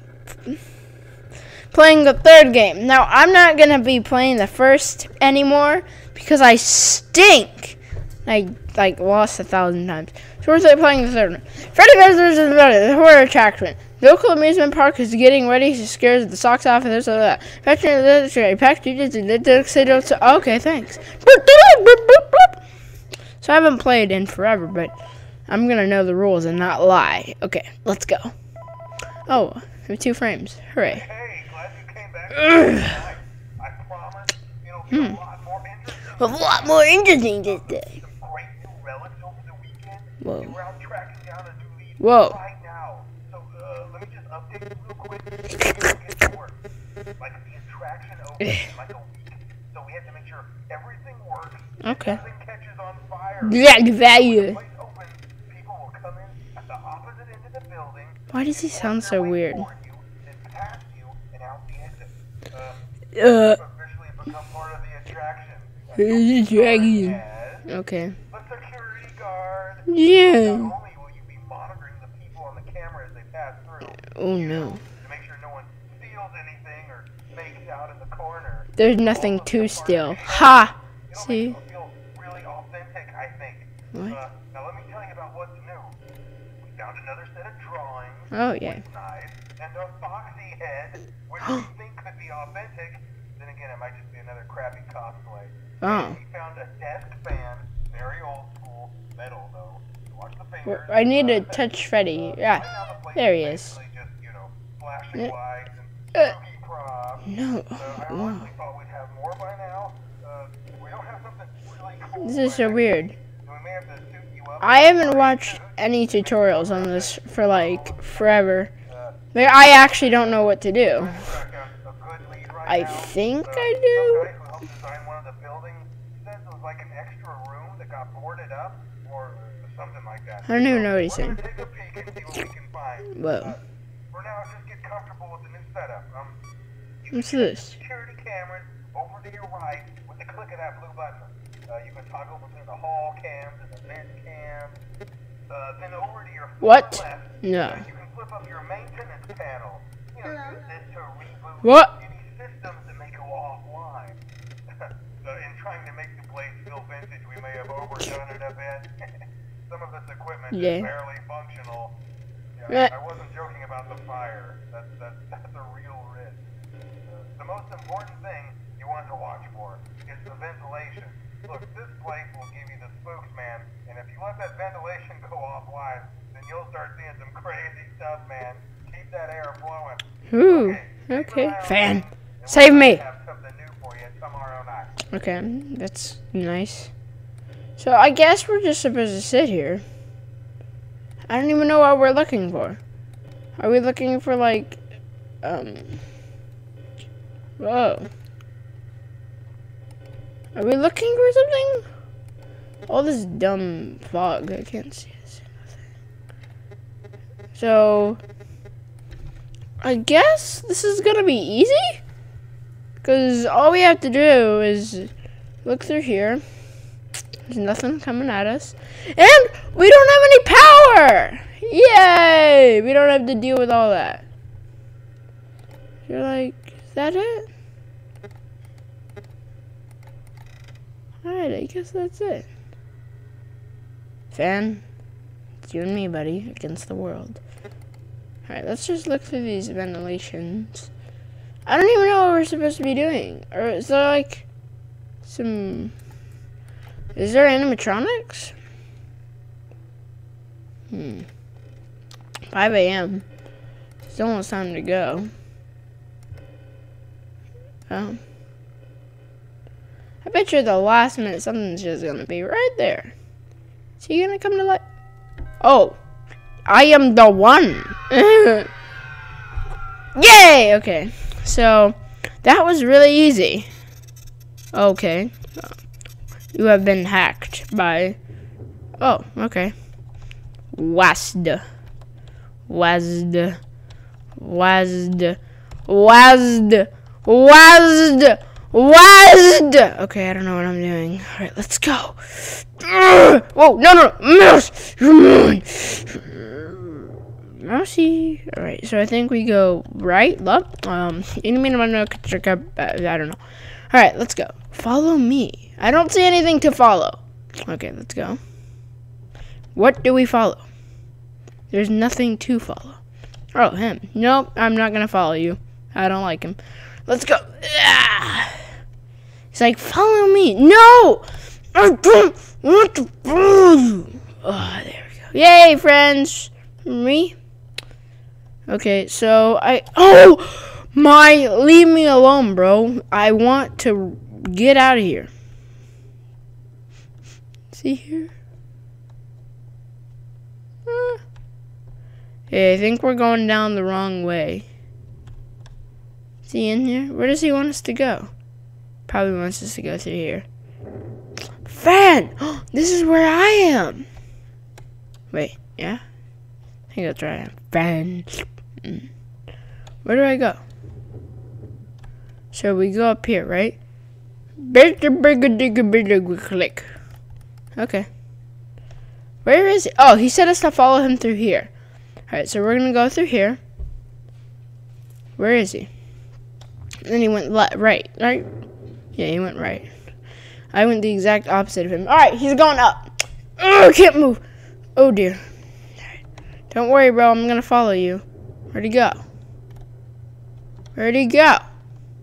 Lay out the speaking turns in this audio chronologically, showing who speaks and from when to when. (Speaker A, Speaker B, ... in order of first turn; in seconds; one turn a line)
Speaker A: 1.7-22.6
Speaker A: 23.4-24.9
Speaker A: 25.5-28.3
Speaker A: 29.3-31.1
Speaker B: 30.9-46.6
Speaker A: 34.9-35.2
Speaker A: 36.2-37.9
Speaker A: 40.2-40.5
Speaker A: 42.0-42.4
Speaker B: 47.2-67.7
Speaker A: 51.8-52.2
Speaker A: 53.4-54.6
Speaker A: 58.3-59.6
Speaker A: 63.1-63.6
Speaker A: 66.0-68.2
Speaker B: 68.3-86.0
Speaker A: 69.9-70.7
Speaker A: 74.0-74.8
Speaker A: 78.8-81.6
Speaker B: 86.6-119.2
Speaker A: 88.3-88.8
Speaker A: 95.8-96.2
Speaker A: 100.6-103.7
Speaker A: 107.2-108.5
Speaker A: 112.2-113.1
Speaker A: 114.6-118.7
Speaker A: 119.3-121.2
Speaker B: 119.7-133.6
Speaker A: 122.7-124.3
Speaker A: 130.4-131.4
Speaker A: 133.1-133.5
Speaker B: 134.1-136.4
Speaker B: 137.0-144.8
Speaker A: 137.1-137.8
Speaker B: 145.5-162.0
Speaker A: 146.6-147.8
Speaker A: 151.6-151.9
Speaker A: 160.5-160.9
Speaker B: 162.6-166.4
Speaker B: 167.0-185.1
Speaker A: 180.3-183.0
Speaker A: 185.1-186.9
Speaker A: 187.8-189.8
Speaker A: 191.3-192.8
Speaker A: 193.6-194.8
Speaker A: 195.4-196.0
Speaker A: 197.6-198.1
Speaker A: 200.5-201.9
Speaker A: 202.9-205.7
Speaker A: 207.5-208.2
Speaker A: 209.8-212.0
Speaker A: 213.0-215.1
Speaker A: 215.6-216.4
Speaker A: 217.4-224.2
Speaker A: 226.1-227.5
Speaker A: 231.2-232.5
Speaker A: 234.3-234.8
Speaker A: 235.6-237.4
Speaker A: 238.5-240.9
Speaker A: 241.7-244.4
Speaker A: 245.2-245.9
Speaker A: 247.1-248.5
Speaker A: 250.9-251.3
Speaker A: 252.5-253.2
Speaker A: 254.1-255.3
Speaker A: 257.9-258.2
Speaker A: 260.2-263.1
Speaker A: 264.0-264.8
Speaker A: 265.6-266.0
Speaker A: 266.6-268.7
Speaker A: 270.1-273.7
Speaker A: 274.7-275.7
Speaker A: 276.5-278.2
Speaker A: 279.0-279.7
Speaker A: 280.7-281.6
Speaker A: 282.7-283.6
Speaker A: 284.3-303.4
Speaker A: 303.9-308.4
Speaker A: 309.7-310.6
Speaker A: 311.7-313.0
Speaker A: 313.5-318.6
Speaker A: 319.5-327.4
Speaker A: 328.7-335.3
Speaker A: 337.7-338.3
Speaker A: 340.9-341.2
Speaker A: 342.5-344.6
Speaker A: 346.4-348.3
Speaker A: 349.1-350.4
Speaker A: 351.6-354.1
Speaker A: 355.3-356.0
Speaker A: 356.9-359.1
Speaker A: 360.0-360.6
Speaker A: 362.5-363.8
Speaker A: 364.6-366.9
Speaker A: 367.8-368.1
Speaker A: 369.4-371.7
Speaker A: 372.3-373.6
Speaker A: 375.4-375.9
Speaker A: 377.0-378.5
Speaker A: 379.1-379.9
Speaker A: 380.7-384.4
Speaker A: 384.9-385.4
Speaker A: 386.7-389.2
Speaker A: 390.9-391.6